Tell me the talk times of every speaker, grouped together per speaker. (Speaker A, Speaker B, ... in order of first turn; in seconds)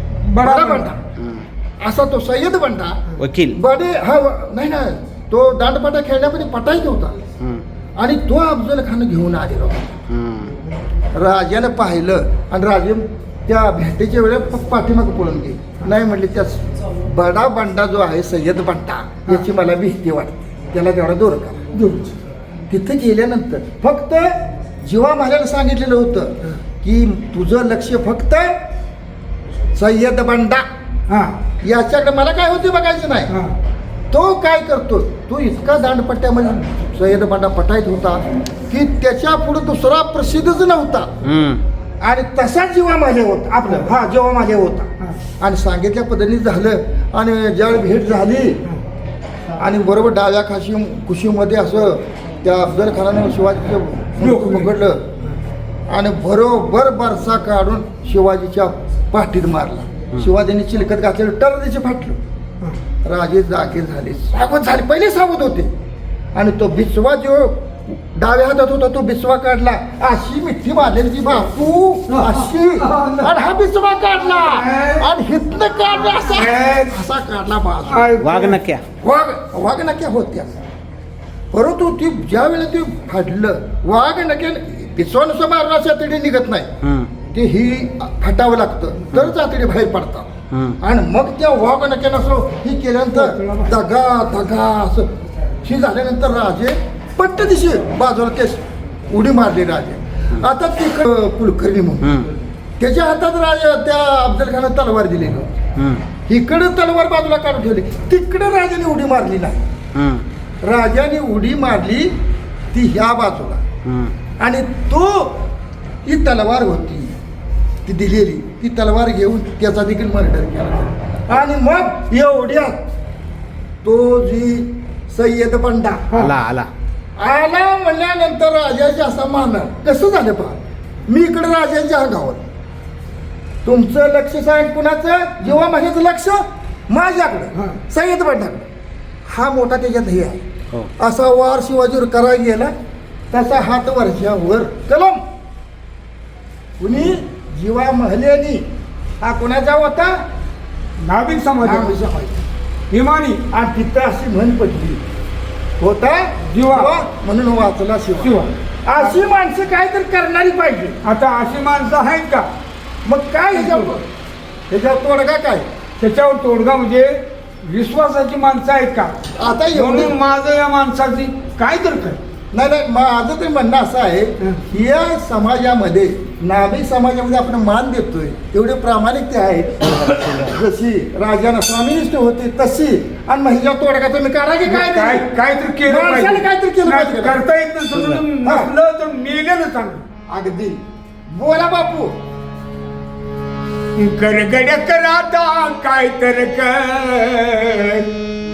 Speaker A: 0.2-0.9, 21.7-22.1, 31.1-31.3, 54.2-54.7, 72.1-73.3, 74.4-75.0, 76.3-76.9, 77.9-78.6, 93.1-93.7, 137.6-137.8, 151.0-151.9, 152.9-153.4, 156.5-156.9, 158.2-159.2, 161.0-162.5, 163.5-163.9, 166.0-169.2, 169.7-172.2, 184.7-190.1, 194.0-198.1
Speaker B: 0.4-1.0, 1.8-7.2, 8.0-10.0, 11.1-21.6, 22.7-28.6, 29.8-30.6, 31.6-33.3, 34.1-41.1, 42.0-48.6, 49.6-55.0, 55.9-62.2, 63.0-65.7, 66.3-78.2, 79.0-80.5, 81.5-86.7, 87.2-95.1, 95.6-102.3, 102.8-105.5, 106.3-109.6, 110.6-112.1, 112.7-113.6, 114.4-115.3, 116.0-117.1, 117.8-122.8, 123.8-126.1, 127.2-132.4, 133.7-138.6, 139.3-140.4, 140.9-142.7, 143.3-145.2, 146.8-148.7, 149.2-150.2, 151.6-152.4, 153.5-155.0, 155.8-161.0, 163.1-164.0, 164.7-165.7, 169.4-170.2, 172.5-185.3, 185.9-187.4, 188.4-188.7, 190.3-190.8, 191.3-192.1
Speaker C: 1.2-1.4, 3.2-3.6, 10.1-10.5, 41.2-41.6, 78.2-78.8, 86.8-87.1, 90.5-90.8, 102.0-102.3, 105.8-106.0, 110.0-110.2, 113.8-114.1, 126.2-126.7, 180.0-180.5